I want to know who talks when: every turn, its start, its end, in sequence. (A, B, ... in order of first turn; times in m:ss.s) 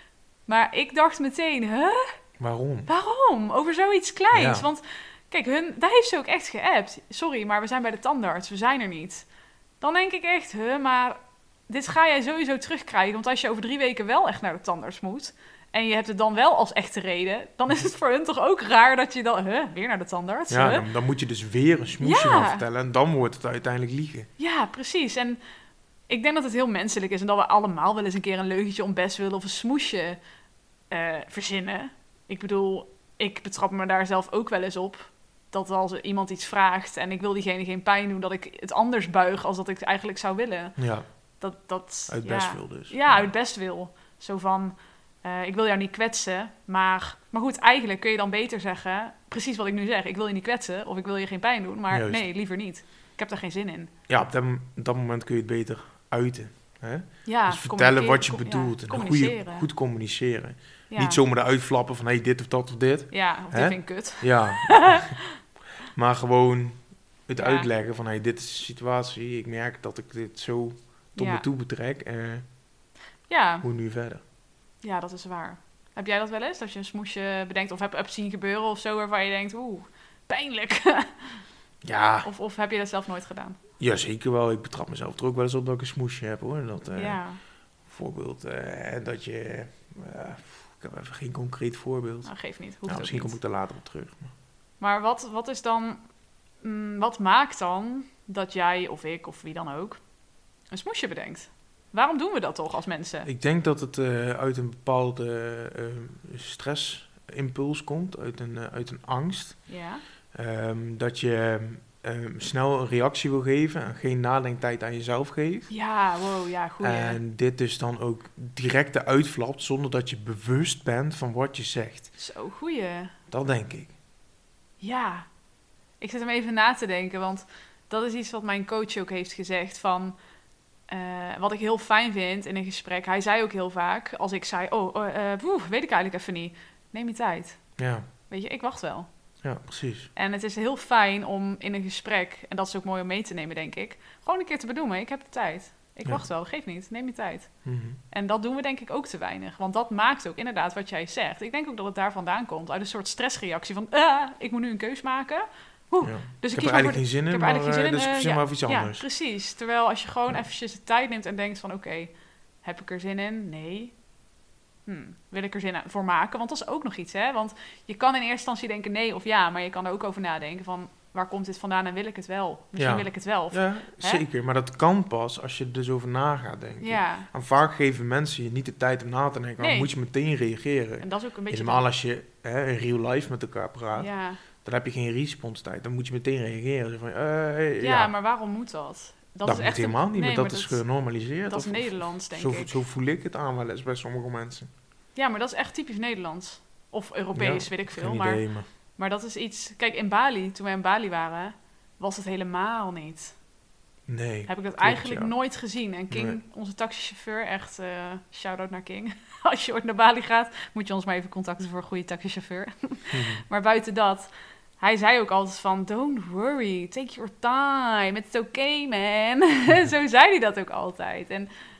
0:00.5-0:02.2 A
0:02.4-0:02.9 B
0:02.9-0:09.3 A
0:04.3-0:04.7 B
0:09.8-0:20.8 A
0:20.5-0:24.3 B
0:22.0-0:22.6 A
0:24.4-0:25.4 A
0:26.1-0:30.2 A
0:30.9-0:40.8 A
0:40.8-0:41.0 B
0:41.4-0:53.9 A
0:42.1-0:43.3 B
0:51.9-0:52.2 B
0:54.1-1:05.2 B
0:57.2-0:59.7 A
1:00.9-1:01.2 A
1:03.1-1:05.1 A
1:05.9-1:12.4 B
1:07.3-1:07.7 A
1:11.2-1:11.4 A
1:13.3-1:13.6 A
1:13.6-1:14.2 B
1:14.8-1:21.4 A
1:21.8-1:22.3 B
1:22.2-1:23.6 A
1:23.8-1:27.2 B
1:26.9-1:27.4 A
1:27.8-1:34.3 B
1:32.2-1:33.4 A
1:34.8-1:36.0 A
1:36.6-1:40.0 A
1:40.7-1:43.3 A
1:43.2-1:49.7 B
1:49.7-1:50.0 A
1:50.3-1:55.7 B
1:55.7-1:57.2 A
1:56.8-2:02.1 B
2:02.2-2:03.1 A
2:03.3-2:03.9 B
2:04.8-2:05.3 A
2:06.0-2:10.2 A
2:10.9-2:17.7 A
2:17.8-2:18.0 B
2:18.3-2:19.1 A
2:19.4-2:20.1 B
2:20.2-2:44.0 A
2:27.6-2:28.0 B
2:36.0-2:39.0 B
2:44.8-2:54.2 A
2:52.8-3:08.1 B
2:56.8-2:57.3 A
2:59.6-2:59.9 A
3:01.0-3:01.8 A
3:03.9-3:04.4 A
3:07.8-3:10.8 A
3:09.4-3:14.7 B
3:11.5-3:12.8 A
3:15.1-3:18.4 A
3:17.3-3:18.7 B
3:19.0-3:23.4 A
3:24.1-3:25.3 B
3:24.5-3:41.5 A
3:26.1-3:26.4 B
3:33.1-3:33.4 B